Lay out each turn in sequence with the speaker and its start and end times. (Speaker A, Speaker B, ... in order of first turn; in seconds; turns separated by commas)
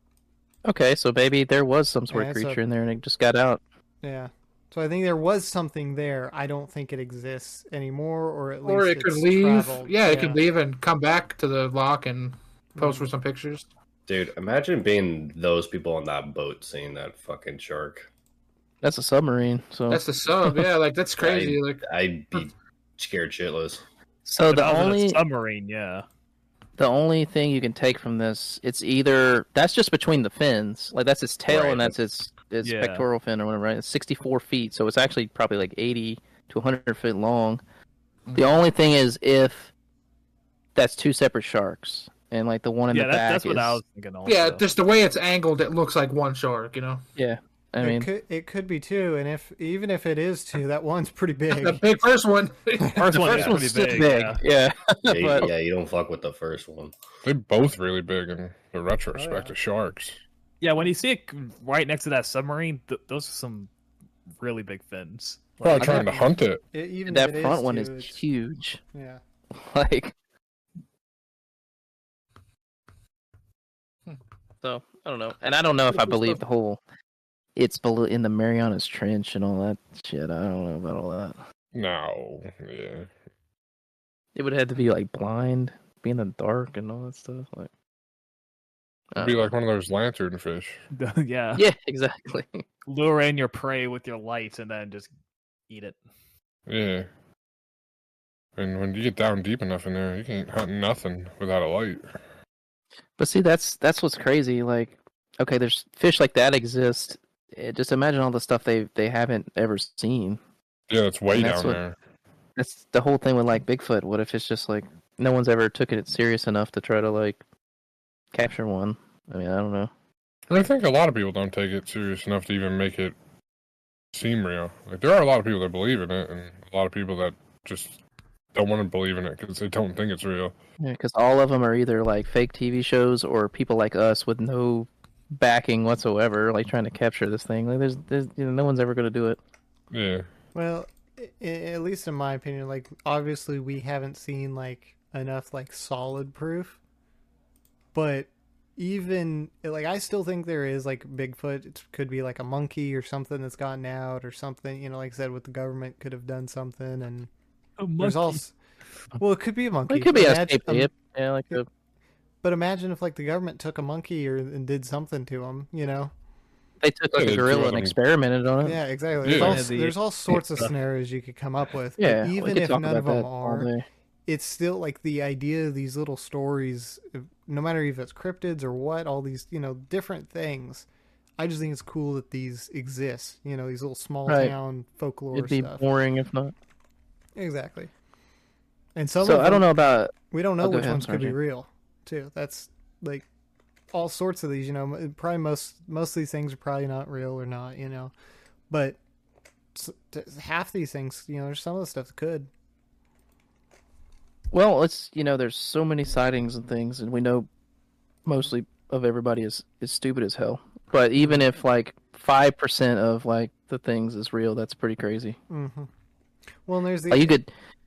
Speaker A: 0.7-3.6, Speaker B: 2.1-2.6, Speaker B: 4.0-10.4, Speaker C: 8.7-13.7, Speaker B: 12.8-13.1, Speaker D: 14.1-18.1, Speaker A: 18.8-20.0, Speaker C: 19.9-21.8, Speaker D: 21.2-23.8, Speaker A: 24.2-25.2, Speaker E: 24.5-26.1, Speaker A: 26.8-37.6, Speaker D: 31.5-31.9, Speaker E: 32.6-33.1, Speaker A: 38.4-39.7, Speaker A: 40.8-43.8, Speaker E: 42.9-44.6, Speaker C: 44.3-47.0, Speaker A: 47.2-48.1, Speaker B: 47.8-51.8, Speaker C: 51.5-53.5, Speaker E: 53.0-54.4, Speaker A: 53.1-55.5, Speaker D: 55.1-56.9, Speaker F: 57.2-60.2, Speaker B: 59.1-59.5, Speaker E: 60.6-63.7, Speaker E: 64.4-65.4, Speaker B: 65.6-68.2, Speaker F: 65.6-66.6, Speaker A: 65.8-66.1, Speaker A: 67.1-68.8, Speaker B: 68.9-69.2, Speaker A: 69.5-70.1, Speaker A: 74.6-76.8, Speaker A: 77.6-81.4, Speaker F: 81.7-83.1, Speaker A: 84.3-87.7, Speaker A: 89.2-89.5, Speaker F: 89.2-90.8, Speaker E: 90.9-91.6, Speaker A: 91.5-92.6, Speaker E: 92.9-95.1, Speaker E: 95.7-96.0, Speaker F: 96.7-97.1, Speaker F: 98.6-102.1, Speaker A: 103.2-110.4, Speaker F: 110.9-112.0, Speaker A: 111.3-111.8, Speaker A: 112.6-117.4, Speaker A: 118.3-119.9, Speaker F: 120.5-123.2, Speaker F: 124.1-128.0, Speaker F: 128.6-130.5, Speaker A: 130.8-139.4, Speaker F: 139.9-140.3, Speaker B: 140.5-146.8, Speaker B: 147.9-157.3, Speaker E: 157.8-158.4, Speaker B: 158.0-158.5, Speaker B: 159.2-160.9, Speaker A: 159.9-161.7, Speaker B: 162.4-166.1, Speaker A: 166.8-168.8, Speaker F: 167.2-167.9, Speaker B: 168.6-173.7, Speaker F: 169.2-169.7, Speaker E: 169.3-170.0, Speaker A: 172.0-173.8, Speaker B: 174.3-180.9, Speaker B: 181.4-185.8, Speaker A: 184.3-184.6, Speaker A: 185.3-186.5, Speaker B: 187.4-187.9, Speaker B: 189.0-189.7, Speaker A: 189.2-191.4, Speaker B: 190.3-193.3, Speaker B: 193.9-198.1, Speaker B: 198.7-199.0, Speaker B: 199.8-202.5, Speaker A: 204.5-207.5, Speaker A: 208.2-215.4, Speaker B: 211.2-211.4, Speaker B: 215.5-215.9, Speaker B: 216.7-217.4, Speaker A: 217.1-217.5